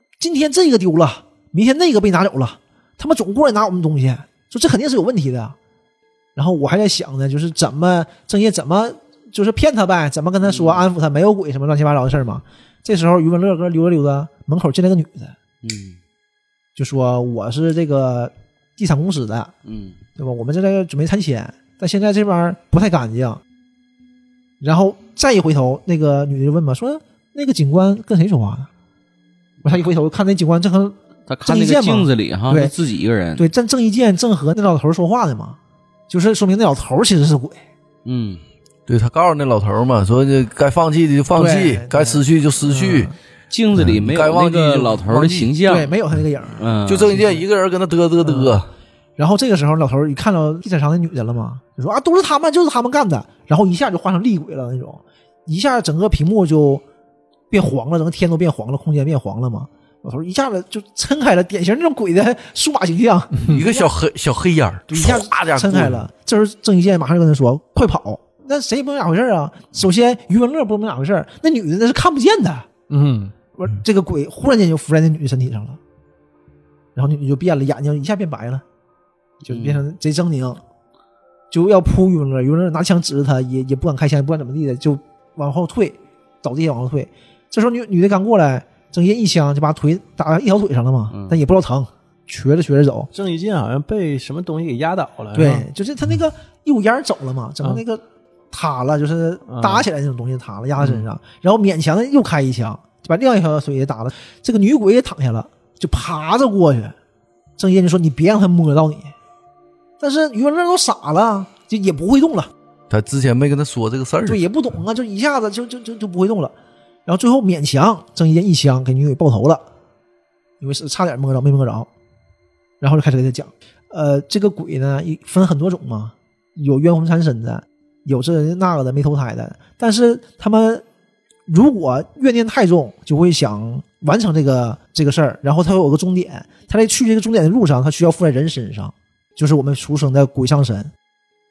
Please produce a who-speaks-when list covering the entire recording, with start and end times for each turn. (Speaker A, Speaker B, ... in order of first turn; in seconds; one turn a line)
Speaker A: 0.2-5.6
Speaker A: 6.4-15.3
Speaker B: 10.4-10.8
Speaker B: 15.6-16.0
Speaker A: 16.8-19.5
Speaker B: 19.7-20.0
Speaker A: 20.2-23.4
Speaker A: 24.6-28.7
Speaker A: 29.6-32.7
Speaker B: 31.3-33.4
Speaker A: 33.4-35.6
Speaker A: 36.1-37.6
Speaker B: 38.0-38.4
Speaker C: 38.9-43.1
Speaker A: 41.4-43.1
Speaker B: 43.5-45.9
Speaker C: 43.7-45.5
Speaker A: 45.6-46.7
Speaker B: 46.6-47.2
Speaker C: 46.9-48.7
Speaker A: 48.2-48.6
Speaker A: 49.2-56.8
Speaker A: 57.5-63.9
Speaker C: 63.5-66.0
Speaker A: 64.9-72.7
Speaker D: 72.9-73.3
Speaker A: 73.6-75.8
Speaker A: 77.0-78.6
Speaker B: 79.5-79.8
Speaker A: 79.5-80.6
Speaker A: 81.5-93.1
Speaker B: 91.1-91.4
Speaker D: 93.1-95.7
Speaker A: 95.3-107.0
Speaker D: 99.5-99.9
Speaker D: 100.8-101.0
Speaker A: 107.6-109.1
Speaker A: 110.0-112.5
Speaker C: 112.9-114.4
Speaker A: 114.3-116.5
Speaker A: 117.1-119.6
Speaker A: 120.6-121.9
Speaker A: 122.8-130.8
Speaker A: 131.5-140.9